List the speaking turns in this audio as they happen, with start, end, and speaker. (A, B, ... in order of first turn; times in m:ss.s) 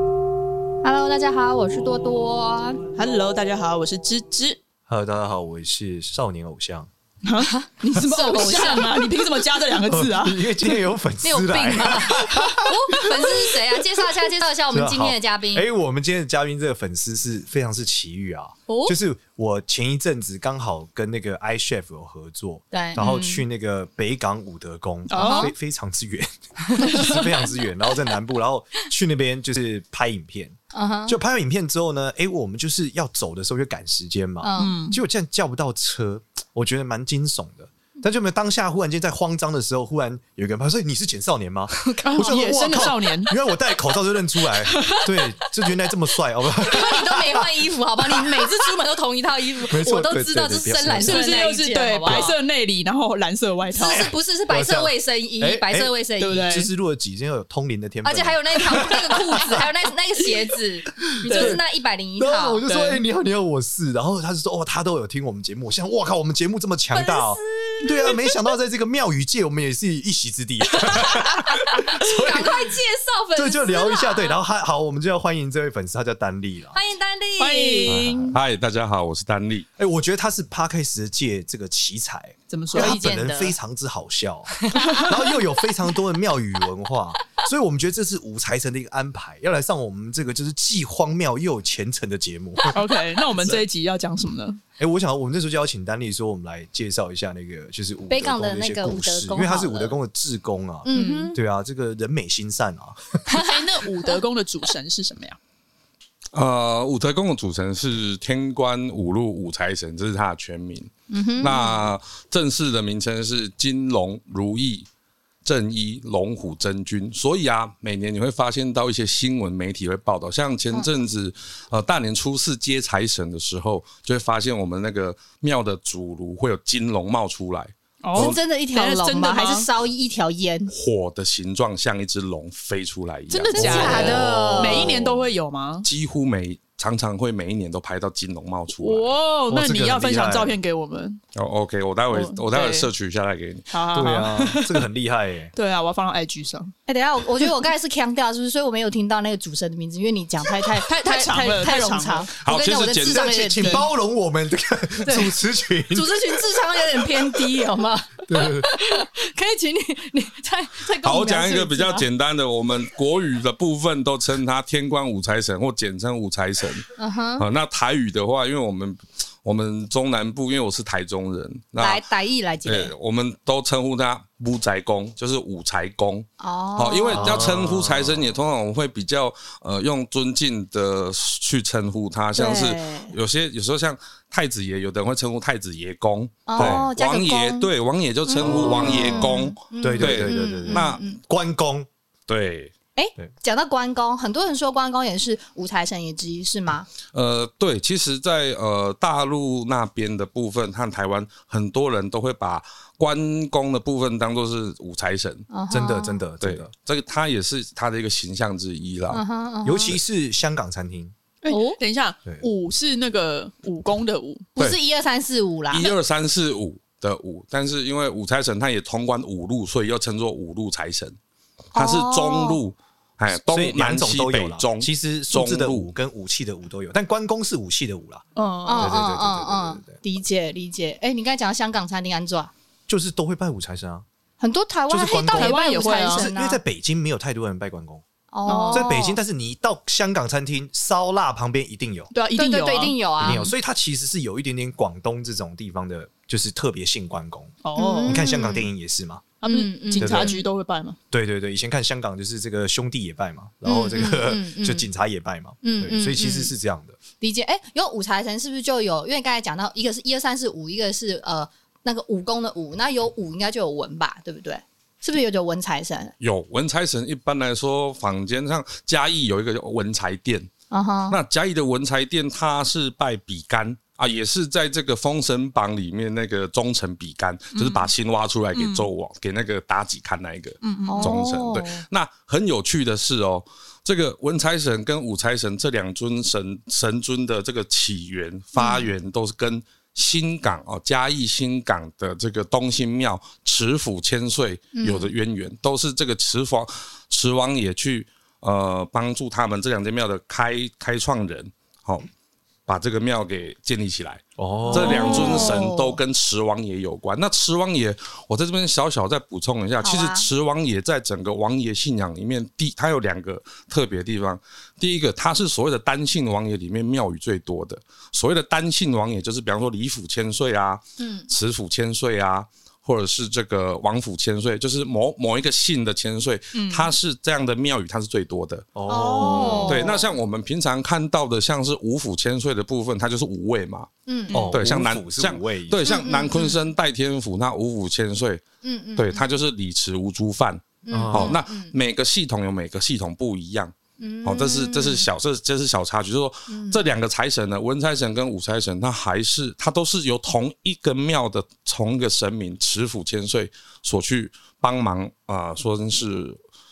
0:00.8-0:02.8 A
0:03.0-0:04.6 B
0:04.9-0:06.9 C
0:07.2-0:10.8 B
0:07.6-0:09.0 A
0:09.9-0:13.6 C
0:11.2-0:15.6 A
0:14.7-0:30.6 C
0:22.7-0:23.3 A
0:23.0-0:23.4 B
0:25.1-0:25.5 B
0:25.1-0:25.5 A
0:26.7-0:27.5 A
0:26.8-0:27.2 B
0:30.7-0:31.2 A
0:31.1-0:48.5 C
0:34.4-0:34.8 A
0:34.6-0:35.0 B
0:41.8-0:42.4 A
0:42.0-0:43.4 B
0:44.7-0:45.1 B
0:46.6-0:52.4 A
0:49.6-0:52.3 C
0:51.0-0:54.1 B
0:53.8-0:55.9 C
0:53.8-0:56.6 A
0:56.2-0:56.7 B
0:56.4-0:59.7 C
0:58.0-1:02.6 A
0:58.7-0:59.5 B
1:01.2-1:01.6 B
1:01.2-1:01.6 C
1:02.2-1:12.8 C
1:02.7-1:03.0 B
1:06.9-1:08.2 A
1:11.5-1:14.4 A
1:13.4-1:16.8 C
1:16.7-1:18.0 A
1:17.4-1:18.4 B
1:17.9-1:18.4 C
1:18.3-1:19.7 D
1:19.8-1:32.8 C
1:22.5-1:23.0 B
1:22.7-1:23.6 A
1:24.6-1:25.4 A
1:24.8-1:25.2 B
1:32.7-1:34.6 B
1:33.4-1:33.6 C
1:34.8-1:43.2 C
1:38.1-1:40.0 A
1:40.8-1:41.4 A
1:40.9-1:41.3 B
1:43.3-1:43.7 A
1:43.4-1:45.4 B
1:46.3-1:54.9 D
1:51.1-1:51.8 A
1:55.4-2:08.4 D
2:08.0-2:09.7 B
2:08.1-2:10.7 A
2:10.7-2:14.3 D
2:13.3-2:15.9 B
2:13.6-2:15.0 A
2:13.7-2:14.9 C
2:15.8-2:19.1 D
2:18.8-2:21.2 B
2:19.5-2:20.6 C
2:21.4-2:23.7 D
2:22.1-2:22.9 B
2:23.7-2:24.9 B
2:23.9-2:25.5 C
2:25.5-2:26.7 B
2:26.9-2:33.9 A
2:30.8-2:32.3 B
2:32.4-2:33.3 D
2:33.1-2:36.4 C
2:33.6-2:33.9 B
2:35.0-2:35.4 A
2:35.9-2:42.1 A
2:37.0-2:37.5 C
2:38.3-2:38.7 C
2:41.0-2:52.0 D
2:47.0-2:47.5 A
2:51.8-2:52.9 A
2:52.6-3:11.0 D
2:56.4-2:57.5 A
2:57.1-2:58.4 C
3:02.4-3:03.1 A
3:06.5-3:07.7 A
3:06.6-3:06.9 C
3:08.3-3:11.2 A
3:08.4-3:11.9 C
3:12.3-3:12.7 D
3:13.0-3:16.9 A
3:17.1-3:25.5 D
3:25.5-3:26.2 A
3:25.7-3:26.7 C
3:26.4-3:29.2 D
3:29.1-3:30.0 A
3:29.6-3:31.1 C
3:31.4-3:34.5 B
3:31.5-3:31.8 A
3:34.6-3:35.9 A
3:35.7-3:41.2 D
3:41.7-3:45.9 D
3:41.8-3:42.6 A
3:43.5-3:48.2 C
3:48.4-3:49.0 B
3:48.7-3:52.5 A
3:48.8-3:50.0 C
3:52.9-3:54.0 C
3:54.4-3:56.6 A
3:54.9-3:58.0 C
3:55.3-3:56.3 B
3:58.3-3:59.2 A
3:58.4-3:59.0 B
3:58.7-4:02.1 C
4:02.1-4:03.5 B
4:02.4-4:03.5 A
4:03.2-4:09.3 C
4:07.6-4:08.3 B
4:07.8-4:08.7 A
4:09.4-4:11.0 B
4:09.4-4:10.4 A
4:10.0-4:10.4 C
4:11.1-4:17.0 C
4:13.6-4:14.9 A
4:15.6-4:16.5 A
4:17.2-4:26.1 A
4:26.2-4:30.5 D
4:30.7-4:31.2 A
4:31.1-5:02.1 D
4:37.6-4:37.8 B
4:38.5-4:38.9 B
4:40.6-4:41.2 B
4:40.8-4:41.8 A
4:48.6-4:48.9 A
4:54.8-4:55.1 A
5:02.7-5:28.7 D
5:04.4-5:05.4 C
5:04.7-5:06.0 A
5:09.8-5:10.3 A
5:21.0-5:21.3 A
5:26.5-5:26.9 B
5:28.8-5:29.9 C
5:28.9-5:29.9 B
5:28.9-5:30.1 A
5:29.6-5:33.9 D
5:34.1-5:34.5 A
5:34.3-5:34.6 B
5:34.3-5:35.8 C
5:34.5-5:38.4 D
5:35.8-5:36.6 A
5:38.6-5:39.3 A
5:39.0-5:43.7 D
5:40.8-5:41.7 A
5:40.9-5:41.4 C
5:44.0-5:45.1 A
5:44.2-5:56.4 D
5:46.5-5:46.8 A